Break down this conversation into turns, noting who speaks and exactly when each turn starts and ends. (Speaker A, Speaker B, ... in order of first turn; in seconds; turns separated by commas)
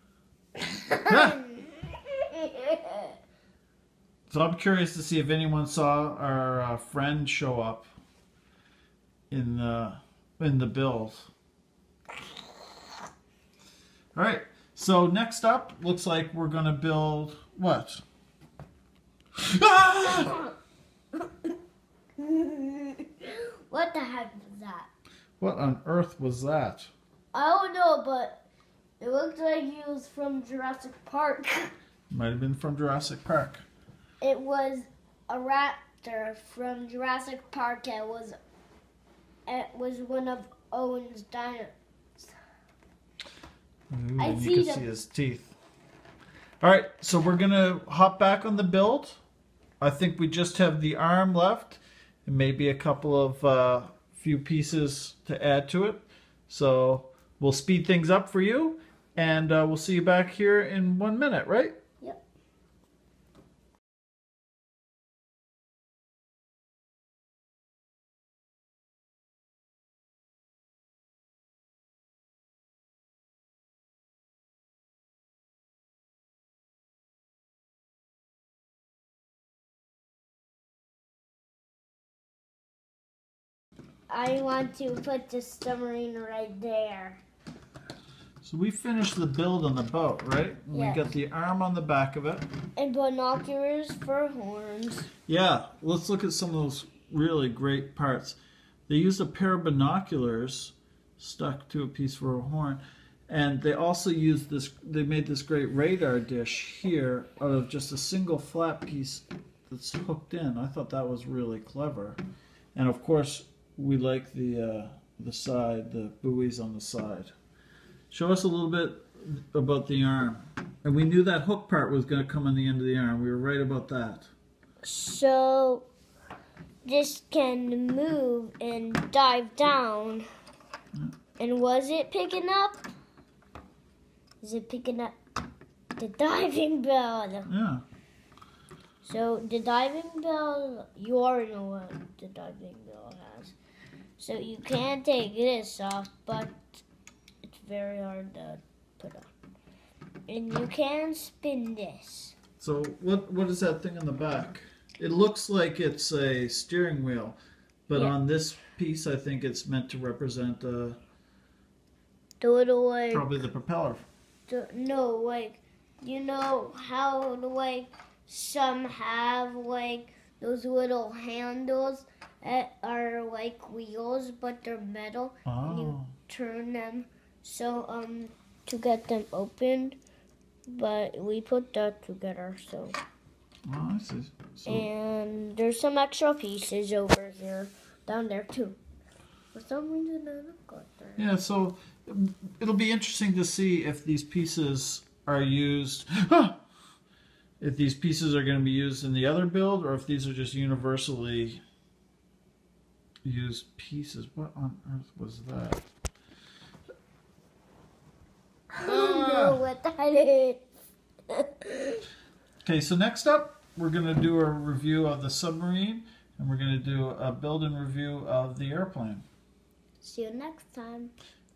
Speaker A: 0.6-3.1, Speaker B: 1.1-1.4, Speaker B: 4.3-7.9, Speaker B: 9.3-11.3, Speaker B: 14.1-18.0, Speaker B: 19.4-20.4, Speaker A: 22.2-24.9, Speaker B: 25.4-26.9, Speaker A: 27.3-28.5, Speaker A: 29.0-31.7, Speaker B: 32.1-33.6, Speaker A: 34.2-38.4, Speaker A: 39.5-42.3, Speaker B: 43.9-45.5, Speaker A: 44.2-44.9, Speaker B: 46.6-49.2, Speaker B: 49.8-61.8, Speaker A: 84.1-87.2, Speaker B: 88.4-92.5, Speaker A: 90.7-91.1, Speaker A: 92.8-95.1, Speaker B: 95.3-98.4, Speaker B: 98.9-112.2, Speaker B: 112.7-117.3, Speaker B: 118.1-124.3, Speaker A: 124.8-125.8, Speaker A: 126.8-130.2, Speaker A: 131.4-132.8, Speaker A: 134.4-135.2, Speaker A: 136.0-137.5, Speaker B: 137.5-137.8, Speaker A: 139.0-143.5, Speaker A: 144.2-146.8, Speaker A: 147.4-149.3, Speaker A: 150.3-152.3, Speaker B: 152.6-161.0, Speaker A: 162.4-163.3, Speaker B: 163.1-164.1, Speaker A: 164.5-180.0, Speaker B: 175.4-176.1, Speaker A: 180.7-183.0, Speaker B: 183.7-184.9, Speaker A: 184.7-188.8, Speaker A: 189.5-191.2, Speaker B: 191.2-196.6, Speaker B: 197.6-201.6, Speaker B: 203.2-205.8, Speaker B: 208.8-209.6, Speaker A: 208.8-210.6, Speaker A: 211.3-212.0, Speaker B: 212.6-219.2, Speaker A: 220.0-221.1